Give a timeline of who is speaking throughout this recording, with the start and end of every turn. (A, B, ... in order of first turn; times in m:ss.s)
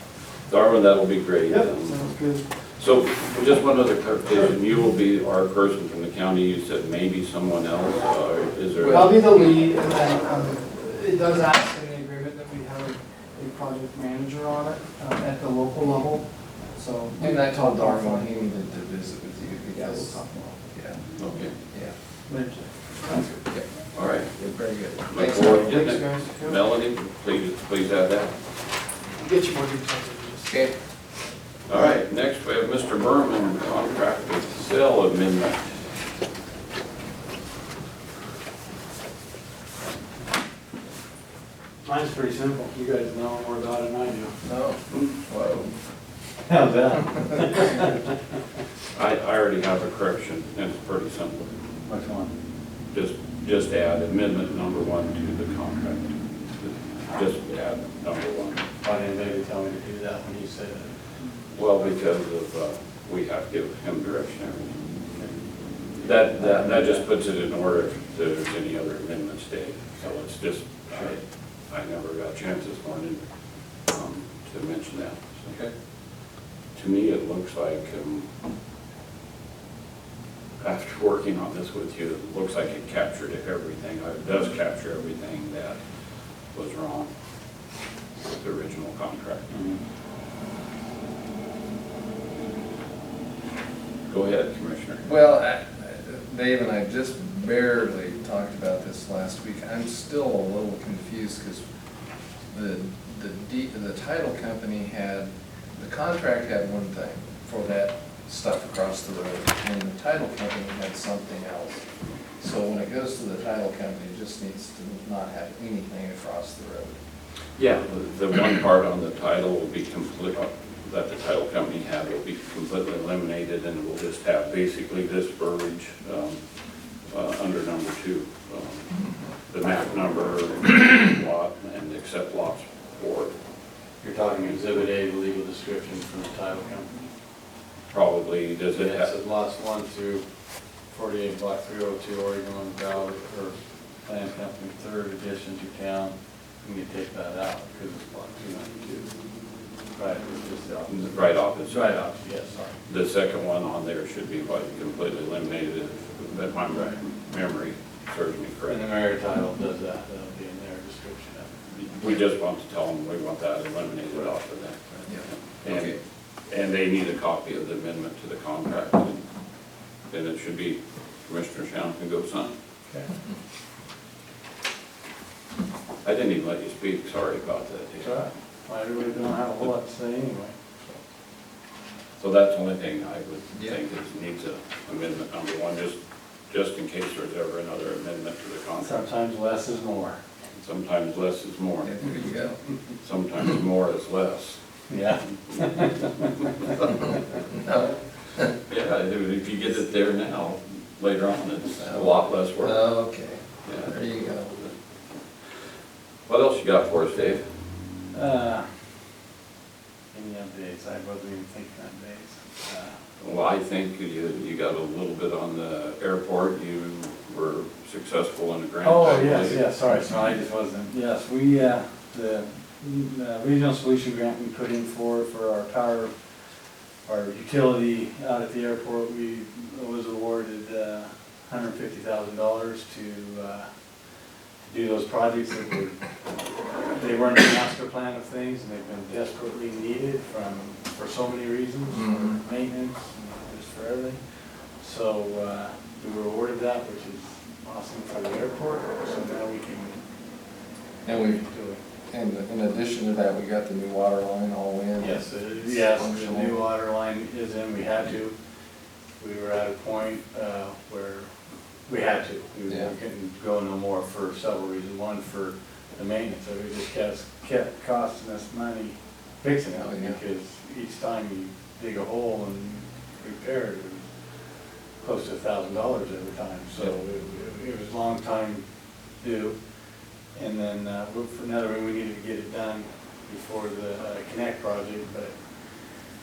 0:00.5-0:09.5 A
0:01.5-0:02.4 B
0:08.8-0:09.1 C
0:08.8-0:18.5 B
0:17.2-0:20.2 C
0:19.7-0:20.6 B
0:20.7-0:21.0 C
0:21.2-0:21.5 A
0:22.3-0:23.4 B
0:23.9-0:24.3 A
0:24.3-0:25.7 C
0:25.1-0:28.4 A
0:25.2-0:26.6 B
0:29.1-0:30.6 B
0:30.5-0:30.7 C
0:31.7-0:35.7 A
0:41.8-0:44.4 D
0:44.4-0:45.7 C
0:46.4-0:47.9 D
0:48.9-0:51.5 A
0:51.9-0:52.3 D
0:52.9-0:58.6 A
0:58.8-1:00.9 D
1:01.5-1:04.8 A
1:06.0-1:13.2 A
1:06.2-1:07.0 D
1:13.9-1:15.7 A
1:16.7-1:18.3 A
1:20.6-1:25.8 A
1:26.5-1:27.1 A
1:28.4-1:29.5 A
1:29.5-1:29.8 D
1:34.1-1:35.0 A
1:35.0-1:41.6 C
1:42.5-1:51.8 C
1:52.4-1:57.0 C
1:57.6-2:06.4 A
2:07.0-2:13.3 A
2:14.0-2:17.0 D
2:17.9-2:19.1 A
2:18.7-2:20.2 D
2:20.8-2:29.2 D
2:30.0-2:32.8 D
2:30.9-2:32.0 A
2:32.9-2:38.8 A
2:38.7-2:41.6 D
2:41.7-2:45.0 A
2:45.1-2:46.0 C
2:45.6-2:49.2 A
2:50.1-2:52.5 A
2:56.0-2:58.1 A
2:58.0-3:00.6 D
3:02.2-3:06.0 A
3:06.5-3:09.0 A
3:08.8-3:10.2 D
3:10.5-3:12.0 A
3:11.8-3:12.6 C
3:13.0-3:14.6 A
3:14.9-3:16.4 D
3:16.9-3:18.5 C
3:18.7-3:22.8 A
3:21.8-3:24.6 C
3:23.6-3:23.9 A
3:26.2-3:27.4 A
3:28.1-3:28.8 D
3:30.1-3:33.0 D
3:33.2-3:39.6 A
3:38.8-3:46.1 D
3:47.0-3:53.7 D
3:54.6-3:56.0 D
3:56.9-4:10.0 D
4:01.9-4:02.4 C
4:11.0-4:11.4 C
4:11.1-4:11.8 D
4:12.1-4:16.6 C
4:15.0-4:18.3 D
4:19.2-4:21.3 D
4:21.9-4:34.0 D
4:22.7-4:22.9 C
4:29.8-4:30.2 C
4:35.0-4:38.6 D
4:39.2-4:39.6 D
4:40.3-4:45.4 D